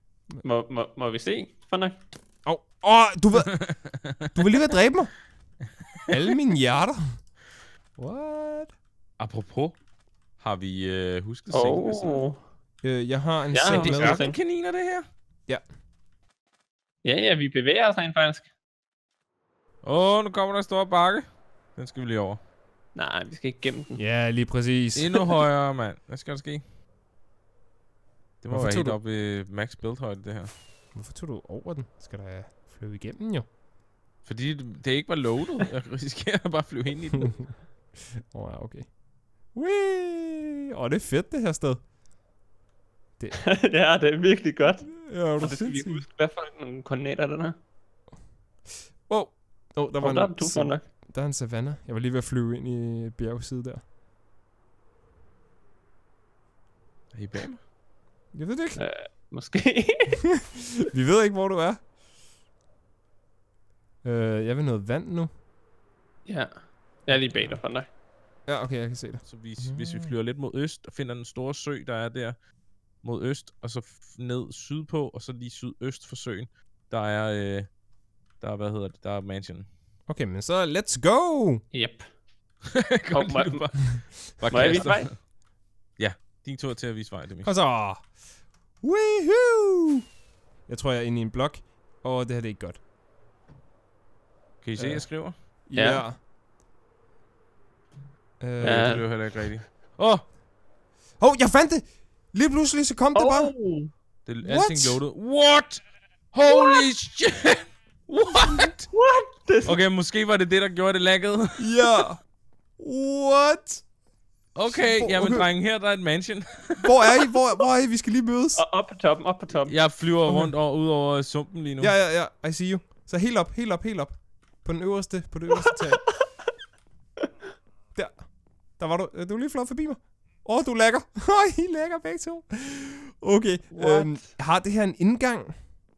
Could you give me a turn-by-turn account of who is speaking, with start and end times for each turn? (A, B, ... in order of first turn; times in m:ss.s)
0:00.4-0:02.0 A
0:02.4-0:03.7 B
0:03.6-0:04.1 C
0:04.2-0:05.2 B
0:06.1-0:07.2 B
0:08.0-0:08.8 B
0:09.2-0:09.8 C
0:10.4-0:12.2 C
0:11.5-0:12.4 A
0:12.8-0:14.2 B
0:13.5-0:14.4 A
0:13.6-0:15.1 C
0:17.0-0:18.4 A
0:19.8-0:22.4 C
0:22.9-0:24.0 A
0:24.0-0:25.4 B
0:24.9-0:26.6 C
0:28.4-0:30.5 C
0:28.5-0:29.0 B
0:30.9-0:33.4 B
0:34.2-0:37.6 C
0:38.0-0:39.0 B
0:39.5-0:41.8 B
0:43.4-0:47.6 A
0:45.0-0:46.0 B
0:49.1-0:53.8 B
0:50.0-0:50.8 A
0:57.1-0:57.6 C
0:58.3-0:58.8 B
0:58.8-1:00.2 A
1:00.8-1:01.8 B
1:04.0-1:05.3 B
1:06.2-1:07.9 A
1:08.4-1:10.1 B
1:09.2-1:17.8 C
1:18.4-1:19.7 C
1:20.1-1:21.6 B
1:21.7-1:22.1 A
1:22.7-1:25.3 C
1:23.1-1:25.1 A
1:24.5-1:24.9 B
1:26.0-1:27.5 C
1:27.4-1:28.1 B
1:28.8-1:30.0 B
1:30.7-1:32.8 B
1:34.6-1:35.3 C
1:34.8-1:36.2 B
1:35.7-1:36.0 A
1:38.4-1:39.1 B
1:38.6-1:40.2 C
1:38.6-1:39.0 A
1:41.2-1:43.5 B
1:43.1-1:43.9 A
1:44.2-1:48.9 C
1:44.4-1:45.0 B
1:46.5-1:46.8 A
1:48.9-1:49.8 A
1:49.6-1:52.0 C
1:51.6-1:52.2 B
1:52.8-1:53.8 B
1:54.5-1:57.3 C
1:54.7-1:55.5 B
1:56.8-1:58.6 B
1:58.6-1:59.8 A
1:59.7-2:01.9 C
2:00.3-2:00.5 B
2:01.8-2:06.2 B
2:07.9-2:15.6 B
2:13.7-2:14.3 A